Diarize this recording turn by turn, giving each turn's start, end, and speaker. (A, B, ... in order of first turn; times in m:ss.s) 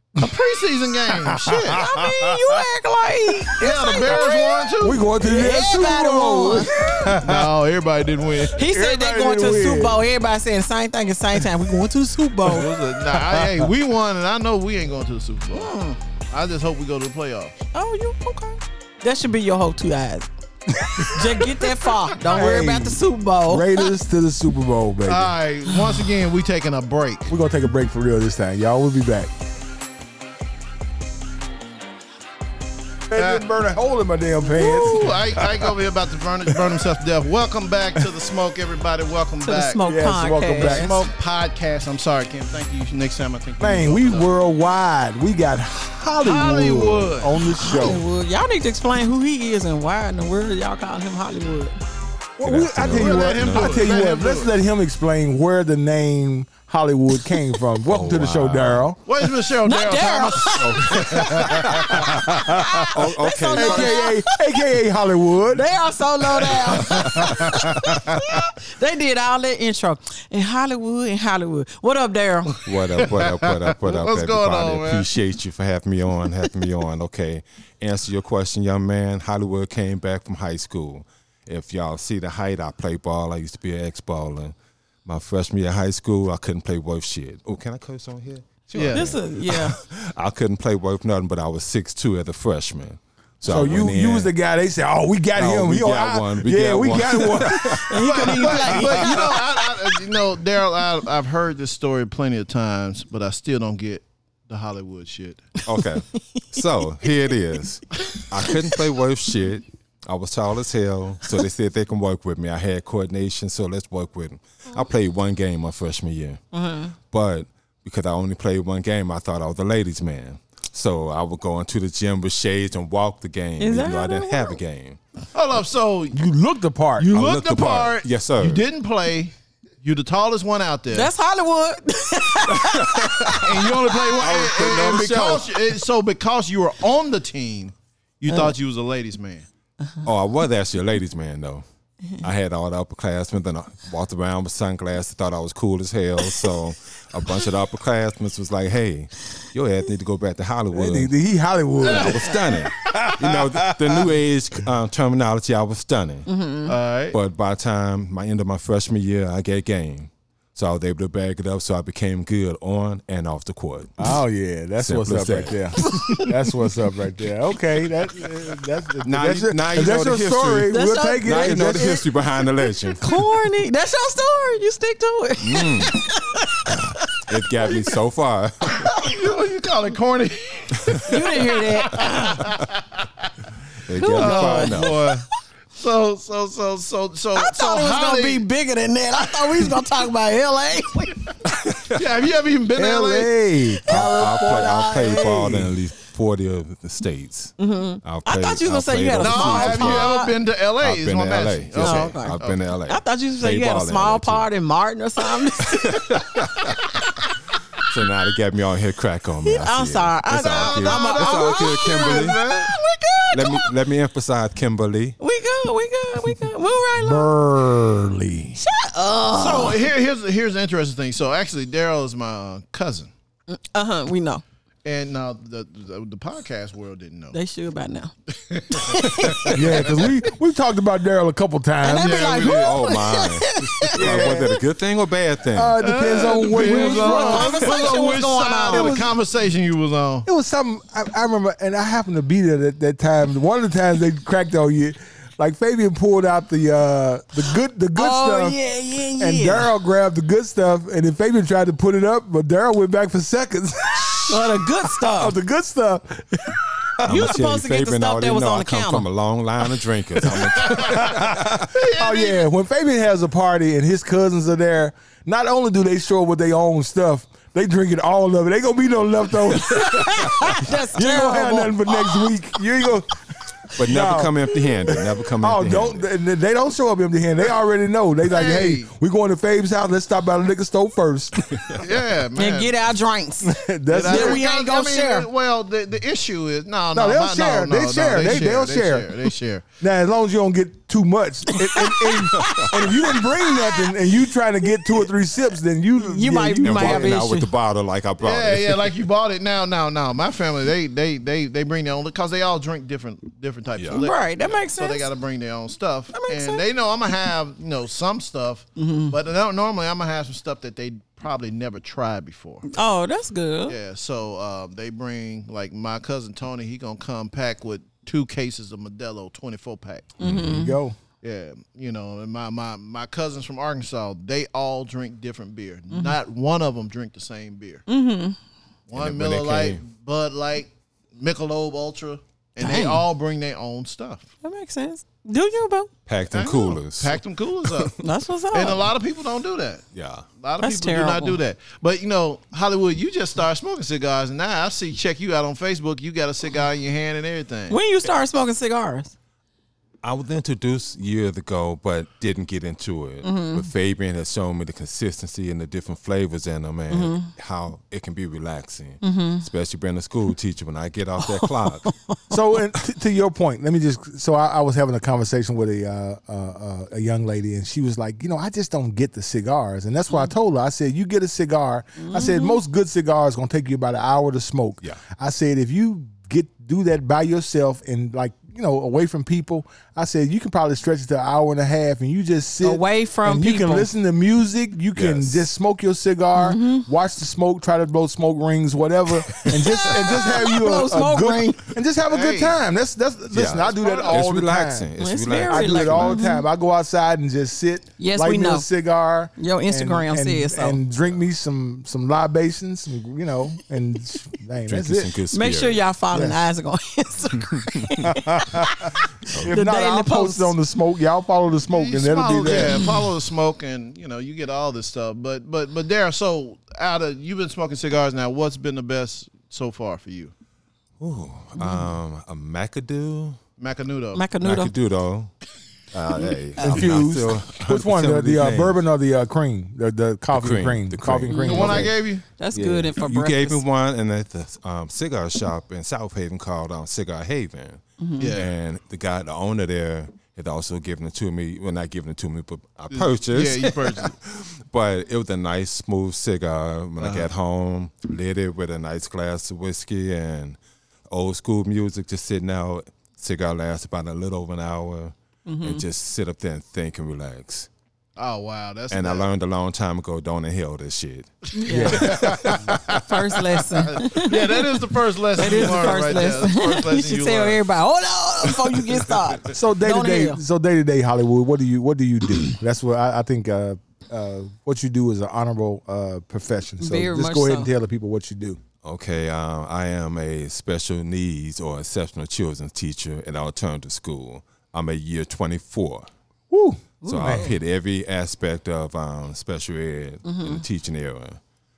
0:00.2-0:01.9 A
0:01.1-0:02.2 B
0:01.7-0:06.8 C
0:03.6-0:05.1 A
0:04.8-0:07.5 B
0:07.0-0:08.6 A
0:08.5-0:12.7 C
0:08.6-0:10.0 B
0:12.4-0:17.6 A
0:13.0-0:13.7 B
0:15.5-0:16.0 C
0:17.7-0:20.3 C
0:20.8-0:21.4 B
0:21.0-0:23.9 C
0:22.2-0:25.3 B
0:25.0-0:27.3 A
0:27.3-0:29.3 B
0:33.1-0:35.7 B
0:33.1-0:33.4 A
0:34.5-0:35.0 C
0:34.6-0:39.9 A
0:36.5-0:36.9 B
0:39.4-0:40.9 C
0:39.8-0:41.1 B
0:40.4-0:44.3 A
0:43.6-0:48.0 B
0:46.2-0:47.3 A
0:47.5-0:51.8 C
0:52.4-0:59.0 B
0:52.4-0:53.9 D
0:52.9-0:54.5 A
0:57.8-0:58.9 D
0:59.0-1:02.1 A
0:59.6-1:04.6 C
1:00.6-1:02.2 D
1:01.9-1:02.9 B
1:02.9-1:04.0 D
1:03.5-1:05.7 B
1:05.5-1:12.6 C
1:06.6-1:08.2 A
1:12.6-1:34.3 D
1:12.6-1:15.1 A
1:28.7-1:29.1 A
1:28.9-1:29.8 C
1:33.4-1:39.1 B
1:35.4-1:38.1 D
1:37.9-1:39.3 C
1:38.0-1:45.5 A
1:45.6-1:56.4 D
1:45.7-1:47.1 C
1:48.4-1:48.8 C
1:56.5-1:56.9 C
1:57.1-2:05.0 D
2:03.6-2:04.6 C
2:05.3-2:06.2 A
2:06.1-2:07.1 B
2:07.0-2:11.1 A
2:07.1-2:08.6 D
2:10.9-2:13.5 C
2:12.5-2:13.6 D
2:13.3-2:19.4 A
2:14.2-2:15.4 D
2:14.2-2:15.4 B
2:20.0-2:21.6 D
2:22.1-2:31.1 D
2:30.7-2:34.1 B
2:31.8-2:36.3 D
2:31.8-2:32.3 A
2:36.2-2:36.7 C
2:36.6-2:37.2 A
2:37.1-2:44.1 D
2:44.0-2:52.0 B
2:44.8-2:45.7 D
2:45.8-2:46.3 C
2:49.0-2:53.2 D
2:50.7-2:52.0 C
2:52.7-2:57.2 C
2:55.4-2:56.0 D
2:57.0-2:59.0 D
2:58.9-3:03.3 A
3:01.0-3:02.5 C
3:03.8-3:05.2 D
3:04.0-3:05.1 C
3:04.0-3:08.4 A
3:07.3-3:11.2 C
3:11.5-3:12.0 D
3:11.9-3:13.3 A
3:12.7-3:14.4 B
3:13.8-3:15.7 C
3:13.9-3:20.2 D
3:15.1-3:15.7 B
3:17.6-3:20.4 C
3:19.2-3:22.6 A
3:20.8-3:24.5 D
3:21.8-3:26.2 C
3:25.7-3:26.8 D
3:27.8-3:32.4 D
3:29.4-3:33.7 C
3:30.5-3:32.7 A
3:33.3-3:35.2 D
3:35.2-3:37.3 C
3:37.0-3:38.6 B
3:38.6-3:39.8 C
3:39.3-3:43.1 A
3:43.5-3:44.4 C
3:44.8-3:47.4 A
3:47.3-3:48.1 C
3:48.3-3:50.1 A
3:48.7-3:49.9 C
3:49.5-3:52.4 B
3:51.8-3:54.5 C
3:52.0-3:52.8 A
3:52.4-3:55.8 D
3:53.9-3:54.6 B
3:55.5-3:58.0 B
3:55.8-4:00.3 A
3:56.6-3:59.0 C
3:58.6-3:59.1 B
4:00.2-4:08.6 B
4:07.9-4:09.7 C
4:09.2-4:17.3 B
4:14.3-4:15.4 C
4:17.0-4:19.1 C
4:17.0-4:21.7 D
4:20.6-4:33.2 B
4:20.6-4:21.1 A
4:21.7-4:22.4 A
4:29.6-4:32.3 C
4:33.7-4:36.1 D
4:33.8-4:41.8 B
4:38.3-4:38.9 A
4:41.5-4:41.8 D
4:41.7-4:42.7 A
4:42.3-4:45.3 C
4:43.4-4:44.4 B
4:43.9-4:49.6 A
4:46.9-4:49.2 B
4:49.8-4:57.2 B
4:51.6-4:53.8 C
4:52.4-4:52.7 D
4:56.0-4:57.5 C
4:56.6-4:58.9 D
4:58.2-5:12.7 A
5:03.8-5:04.0 D
5:03.9-5:05.1 C
5:06.1-5:06.6 C
5:08.8-5:09.2 C
5:12.7-5:13.8 C
5:13.7-5:20.1 A
5:20.2-5:20.7 C
5:20.2-5:20.6 D
5:20.4-5:21.0 B
5:21.2-5:27.8 A
5:25.9-5:26.2 C
5:27.9-5:28.4 C
5:28.9-5:34.3 A
5:28.9-5:29.8 D
5:32.6-5:33.0 C
5:34.4-5:35.9 C
5:36.0-5:37.9 D
5:36.3-5:38.0 A
5:38.0-5:38.9 C
5:38.5-5:39.8 A
5:39.9-5:40.2 D
5:40.4-5:47.8 A
5:40.6-5:41.4 C
5:47.7-5:49.1 C
5:50.0-6:01.9 D
5:53.2-5:53.7 C
5:56.9-5:57.3 C
5:59.0-5:59.4 C
6:01.2-6:02.3 C
6:02.3-6:34.9 B
6:12.0-6:12.6 C
6:22.6-6:23.9 C
6:25.0-6:25.5 D
6:26.3-6:26.9 C
6:29.4-6:31.6 C
6:32.0-6:32.6 A
6:33.3-6:36.2 D
6:33.6-6:34.2 A
6:35.0-6:36.4 C
6:35.4-6:45.1 B
6:38.0-6:38.7 C
6:39.4-6:40.8 C
6:44.7-6:45.8 D
6:45.3-6:50.5 C
6:46.1-6:46.4 B
6:48.1-6:48.8 B
6:49.4-6:52.8 B
6:51.7-7:00.3 A
7:01.0-7:03.4 D
7:01.6-7:01.8 C
7:03.6-7:04.2 A
7:04.1-7:04.7 C
7:04.4-7:05.3 D
7:05.9-7:08.8 D
7:06.6-7:06.8 C
7:06.6-7:11.9 B
7:10.3-7:11.9 D
7:11.3-7:13.6 C
7:11.4-7:12.2 A
7:12.5-7:30.6 D
7:18.0-7:18.3 C
7:18.2-7:18.5 A
7:22.9-7:24.1 A
7:27.0-7:27.3 A
7:31.1-7:37.7 D
7:35.4-7:35.8 C
7:38.2-7:39.2 A
7:38.9-7:43.0 D
7:41.5-7:42.3 C
7:41.7-7:42.3 B
7:41.8-7:43.0 A
7:42.9-7:44.8 C
7:43.8-7:47.6 A
7:45.3-7:50.4 C
7:49.5-7:58.6 B
7:56.8-7:57.7 C
7:58.8-8:06.1 D
8:06.5-8:07.5 B
8:07.0-8:07.5 C
8:07.0-8:11.4 D
8:10.2-8:10.6 C